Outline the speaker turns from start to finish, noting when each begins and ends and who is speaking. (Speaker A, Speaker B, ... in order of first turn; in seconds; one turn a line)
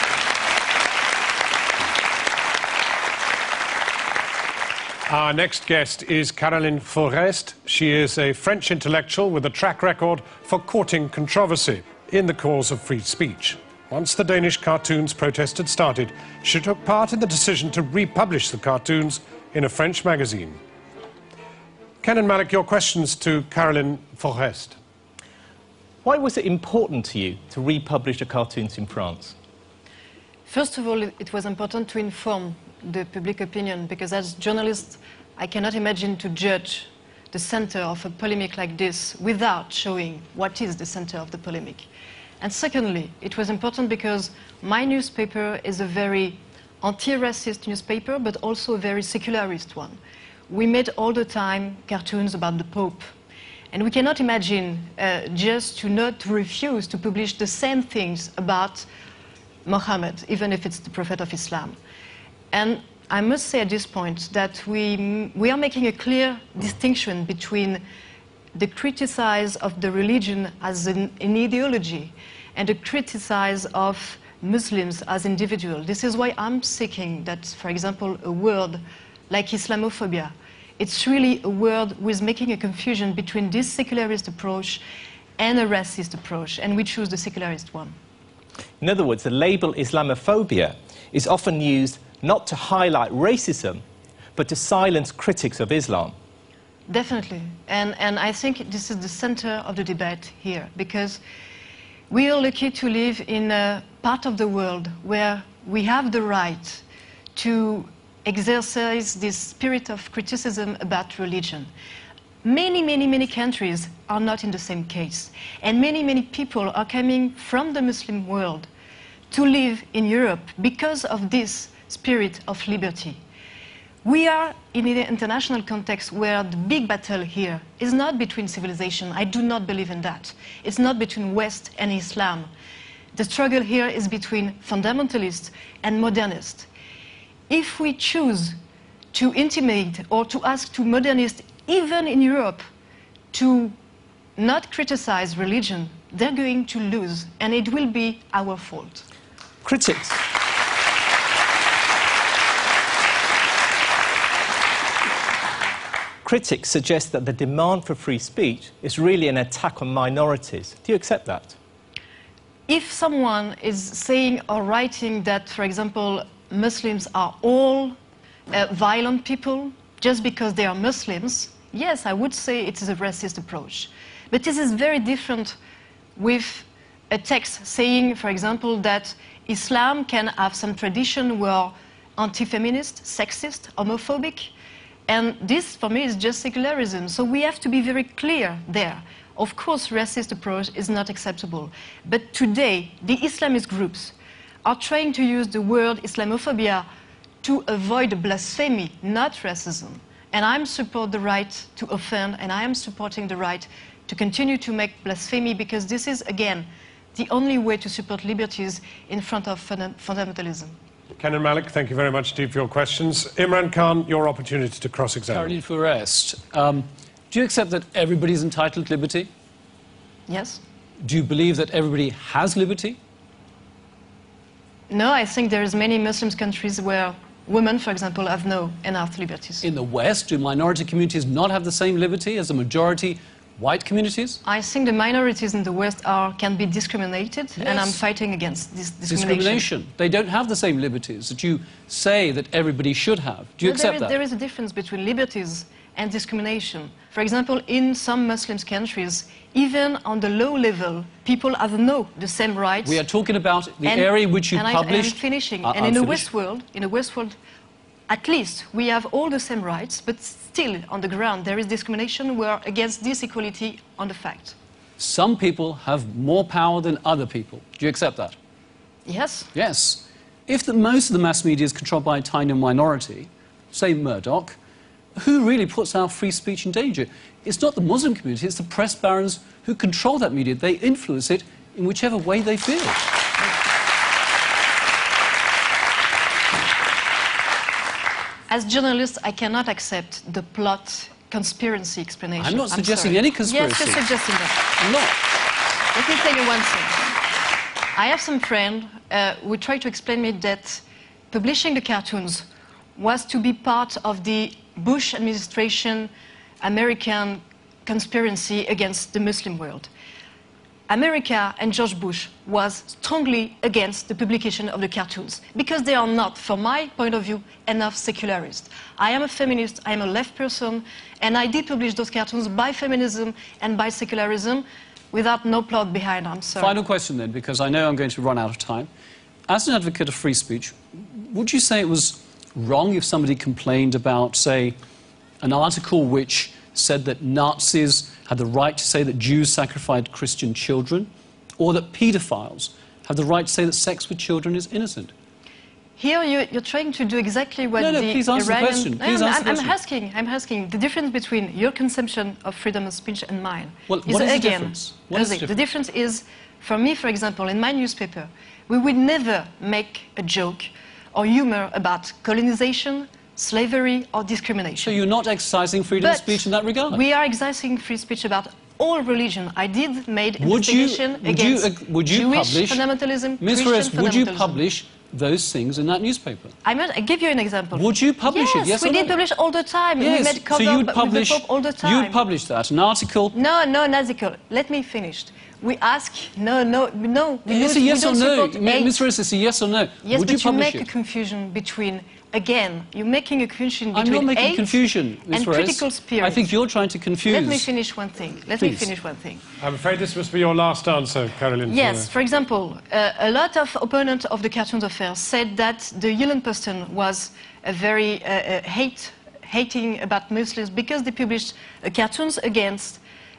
Speaker A: 5.1-20.6
Speaker A: 22.0-24.8
Speaker B: 26.0-29.4
Speaker C: 30.5-41.9
Speaker C: 42.4-50.0
Speaker C: 50.5-53.1
Speaker C: 53.7-58.9
Speaker C: 59.6-61.8
Speaker C: 62.5-67.8
Speaker C: 68.5-84.8
Speaker C: 85.4-88.0
Speaker B: 88.8-93.8
Speaker B: 94.3-96.2
Speaker C: 96.9-101.2
Speaker C: 102.1-106.8
Speaker C: 107.3-111.7
Speaker C: 112.4-118.7
Speaker C: 119.3-123.2
Speaker C: 124.0-132.5
Speaker C: 133.1-136.7
Speaker C: 137.5-138.6
Speaker C: 139.1-142.6
Speaker C: 143.3-143.8
Speaker C: 144.3-149.0
Speaker B: 149.6-150.2
Speaker B: 156.2-161.6
Speaker C: 162.7-167.9
Speaker C: 168.5-175.6
Speaker C: 176.2-184.5
Speaker C: 185.1-196.9
Speaker C: 197.4-210.8
Speaker A: 211.2-215.6
Speaker D: 215.3-219.3
Speaker C: 220.3-220.6
Speaker D: 221.0-223.0
Speaker C: 224.9-229.7
Speaker D: 229.6-234.4
Speaker C: 234.4-239.7
Speaker D: 237.6-238.0
Speaker D: 239.1-244.2
Speaker C: 243.6-253.0
Speaker D: 252.8-256.3
Speaker C: 253.8-257.4
Speaker C: 258.1-264.6
Speaker D: 265.0-268.4
Speaker C: 269.1-269.5
Speaker D: 269.5-274.6
Speaker D: 275.1-283.0
Speaker C: 288.5-294.7
Speaker D: 292.4-294.1
Speaker D: 294.7-295.1
Speaker C: 295.9-297.0
Speaker C: 297.9-309.9
Speaker C: 310.9-326.8
Speaker D: 326.6-328.9
Speaker D: 329.5-334.8
Speaker D: 335.4-345.1
Speaker C: 346.0-365.0
Speaker D: 347.8-349.7
Speaker D: 353.9-355.5
Speaker D: 364.8-367.0
Speaker C: 366.0-374.6
Speaker D: 370.4-372.9
Speaker D: 373.4-376.5
Speaker C: 376.6-382.2
Speaker D: 377.7-379.2
Speaker D: 380.0-383.4
Speaker C: 383.3-389.0
Speaker D: 387.4-390.9
Speaker C: 390.0-396.5
Speaker D: 393.9-397.7
Speaker C: 397.2-399.4
Speaker D: 398.5-398.9
Speaker A: 399.6-402.1
Speaker C: 401.7-413.0